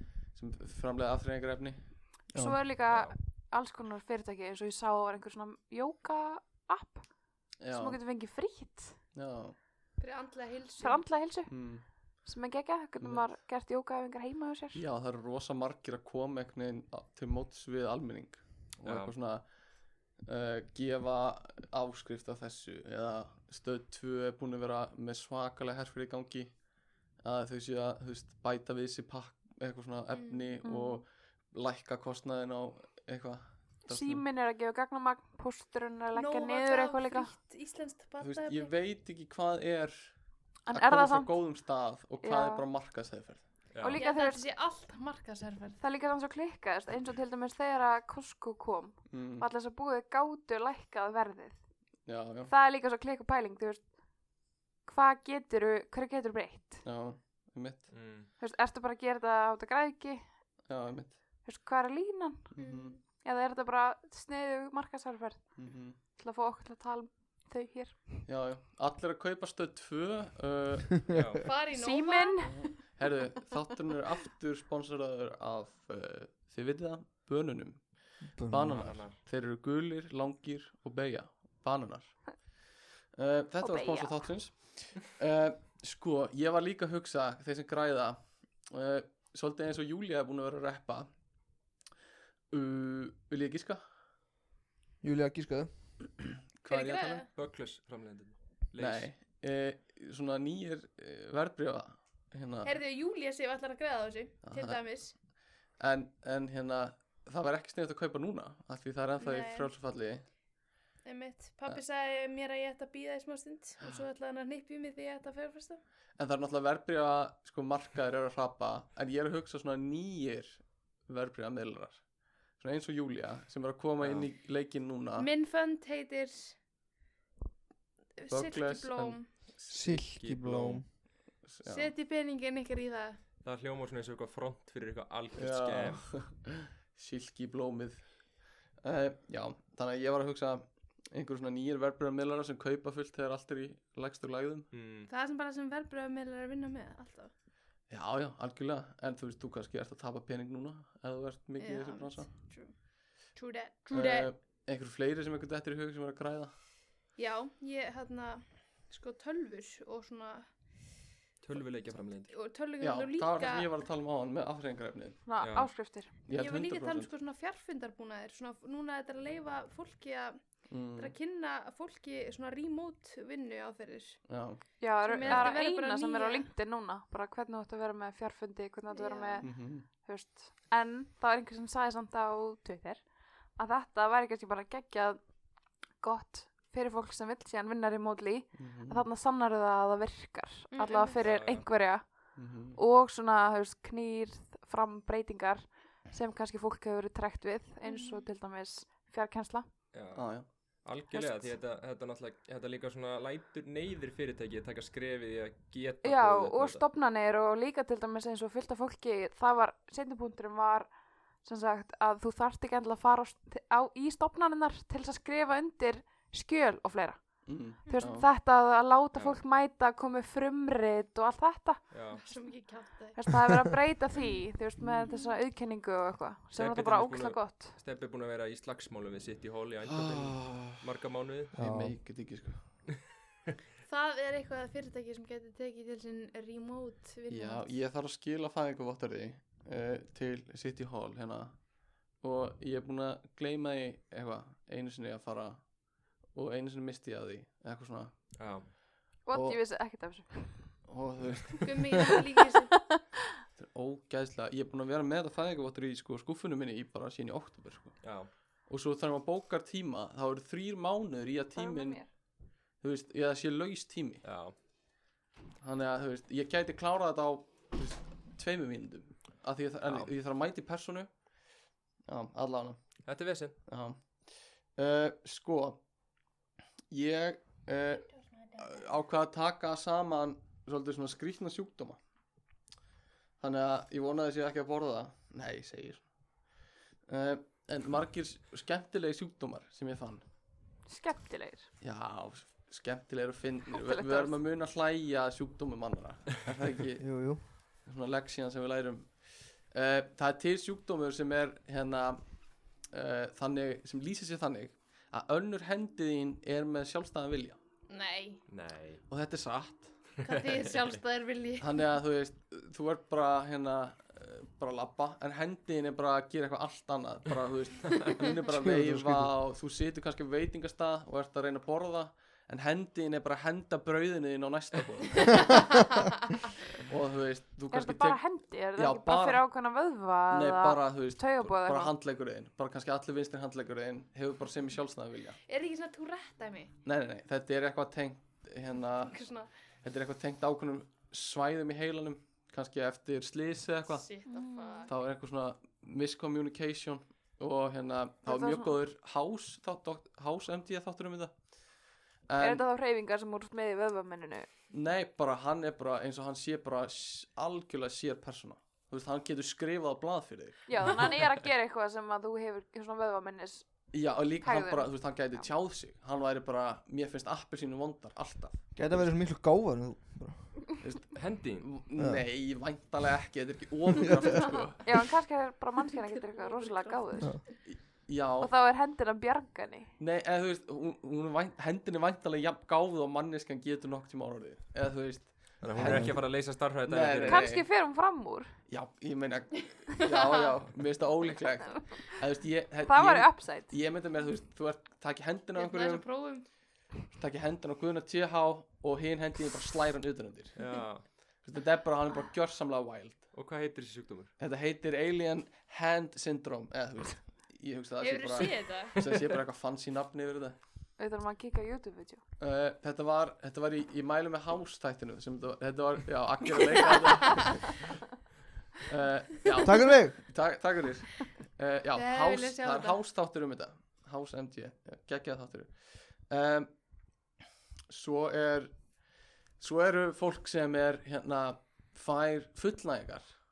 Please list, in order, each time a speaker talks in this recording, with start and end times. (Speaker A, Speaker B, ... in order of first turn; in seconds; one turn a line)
Speaker A: 0.3-1.8
Speaker B: 2.4-9.0
Speaker C: 2.9-3.2
Speaker A: 7.6-8.0
Speaker A: 9.1-9.6
Speaker D: 10.0-11.1
Speaker B: 10.8-14.8
Speaker A: 11.5-11.8
Speaker A: 13.0-13.3
Speaker A: 14.7-19.5
Speaker C: 18.8-19.1
Speaker A: 20.2-26.6
Speaker A: 27.2-34.2
Speaker D: 30.1-30.6
Speaker B: 30.6-31.0
Speaker B: 33.9-37.3
Speaker D: 36.1-38.7
Speaker A: 38.2-40.1
Speaker B: 40.7-41.4
Speaker A: 40.7-43.5
Speaker B: 42.2-42.7
Speaker C: 43.7-44.0
Speaker B: 43.8-44.5
Speaker D: 43.9-45.8
Speaker B: 45.8-51.6
Speaker A: 49.1-49.5
Speaker A: 52.1-52.5
Speaker B: 52.5-56.8
Speaker A: 56.8-57.9
Speaker C: 57.9-58.3
Speaker B: 58.4-60.3
Speaker A: 60.7-61.2
Speaker B: 61.4-62.5
Speaker A: 62.5-63.0
Speaker D: 62.6-63.0
Speaker B: 63.0-68.3
Speaker A: 65.6-66.0
Speaker A: 68.3-71.2
Speaker C: 71.1-71.4
Speaker D: 71.4-72.9
Speaker B: 71.7-72.9
Speaker A: 72.5-91.2
Speaker E: 78.3-79.0
Speaker C: 78.7-79.2
Speaker B: 83.6-84.3
Speaker A: 92.5-93.8
Speaker E: 95.0-96.0
Speaker A: 96.6-97.2
Speaker D: 96.7-97.3
Speaker C: 97.3-99.1
Speaker A: 98.8-102.7
Speaker D: 102.6-105.2
Speaker A: 104.4-104.8
Speaker A: 105.8-110.3
Speaker D: 109.2-109.7
Speaker D: 111.0-115.8
Speaker A: 116.2-125.3
Speaker C: 124.0-124.3
Speaker D: 125.2-126.6
Speaker D: 128.2-129.5
Speaker A: 128.3-129.5
Speaker C: 129.6-130.9
Speaker E: 129.7-130.9
Speaker A: 131.4-131.9
Speaker D: 131.6-133.2
Speaker C: 133.4-136.2
Speaker A: 135.4-144.7
Speaker C: 144.7-145.1
Speaker D: 145.1-147.3
Speaker A: 147.9-152.3
Speaker D: 151.6-154.3
Speaker A: 153.9-156.5
Speaker D: 157.2-160.5
Speaker C: 161.4-162.3
Speaker D: 162.3-163.7
Speaker A: 162.8-165.2
Speaker B: 165.3-166.1
Speaker C: 165.4-165.7
Speaker A: 166.3-167.1
Speaker D: 166.3-174.2
Speaker A: 170.7-171.1
Speaker A: 174.3-174.6
Speaker B: 174.8-199.7
Speaker D: 174.9-176.5
Speaker C: 175.2-175.5
Speaker D: 178.9-179.5
Speaker A: 179.4-179.9
Speaker A: 188.5-189.1
Speaker D: 190.7-191.2
Speaker C: 191.2-191.7
Speaker A: 192.3-192.8
Speaker D: 197.8-198.3
Speaker C: 199.9-200.3
Speaker A: 200.1-200.5
Speaker C: 200.8-206.8
Speaker B: 201.1-201.6
Speaker B: 206.0-221.9
Speaker A: 217.5-218.3
Speaker D: 217.9-218.2
Speaker C: 219.1-219.4
Speaker C: 221.9-222.2
Speaker D: 222.1-223.3
Speaker B: 223.1-227.8
Speaker D: 224.2-224.4
Speaker A: 224.8-225.1
Speaker D: 225.1-225.3
Speaker C: 226.6-231.5
Speaker A: 229.9-230.8
Speaker A: 231.5-232.6
Speaker E: 231.6-232.0
Speaker D: 233.8-237.7
Speaker A: 237.3-245.7
Speaker A: 246.3-248.3
Speaker C: 248.4-248.7
Speaker B: 249.2-250.8
Speaker A: 249.3-249.6
Speaker A: 250.9-252.2
Speaker D: 251.6-252.8
Speaker A: 253.6-258.1
Speaker C: 258.0-258.3
Speaker A: 258.7-262.0
Speaker B: 261.6-262.1
Speaker A: 262.8-264.2
Speaker C: 264.2-264.5
Speaker A: 265.6-271.1
Speaker C: 269.8-270.1
Speaker A: 272.1-272.8
Speaker C: 273.1-273.6
Speaker A: 273.7-275.8
Speaker A: 276.9-282.0
Speaker D: 278.1-278.6
Speaker A: 283.4-286.1
Speaker A: 287.1-290.2
Speaker B: 290.9-291.7
Speaker A: 291.8-297.1
Speaker B: 293.7-294.4
Speaker E: 297.0-297.4
Speaker A: 297.8-302.2
Speaker A: 302.9-307.6
Speaker D: 307.9-308.4
Speaker C: 308.5-309.0
Speaker A: 309.1-310.0
Speaker D: 310.2-311.9
Speaker C: 310.2-310.7
Speaker A: 311.6-325.6
Speaker E: 318.5-319.3
Speaker D: 325.2-325.5
Speaker A: 326.8-329.4
Speaker B: 327.7-331.9
Speaker A: 330.3-335.4
Speaker D: 335.4-336.7
Speaker A: 336.9-339.2
Speaker D: 338.9-339.5
Speaker A: 339.8-344.1
Speaker D: 343.9-344.9
Speaker B: 344.3-344.9
Speaker A: 344.9-351.4
Speaker B: 348.3-348.8
Speaker A: 352.3-352.6
Speaker B: 352.4-354.5
Speaker A: 354.7-360.9
Speaker B: 360.7-364.9
Speaker A: 363.9-369.1
Speaker E: 368.8-370.8
Speaker A: 370.8-374.9
Speaker C: 371.2-371.7
Speaker E: 372.0-372.2
Speaker D: 374.3-374.6
Speaker B: 374.8-377.4
Speaker D: 376.3-377.3
Speaker A: 377.7-378.5
Speaker B: 378.4-379.9
Speaker A: 380.0-386.3
Speaker C: 385.6-387.5
Speaker E: 385.8-386.2
Speaker A: 386.9-387.7
Speaker B: 387.2-388.5
Speaker A: 388.7-396.1
Speaker D: 390.0-390.5
Speaker B: 392.8-393.7
Speaker D: 395.6-396.5
Speaker A: 397.1-400.6
Speaker C: 400.6-401.1
Speaker A: 401.4-403.3
Speaker C: 403.3-404.3
Speaker A: 404.4-410.6
Speaker D: 408.0-409.0
Speaker C: 408.9-409.3
Speaker B: 411.0-412.2
Speaker A: 412.4-417.8
Speaker A: 418.9-426.7
Speaker E: 419.6-420.2
Speaker D: 421.9-423.0
Speaker A: 427.9-429.1
Speaker A: 429.6-433.3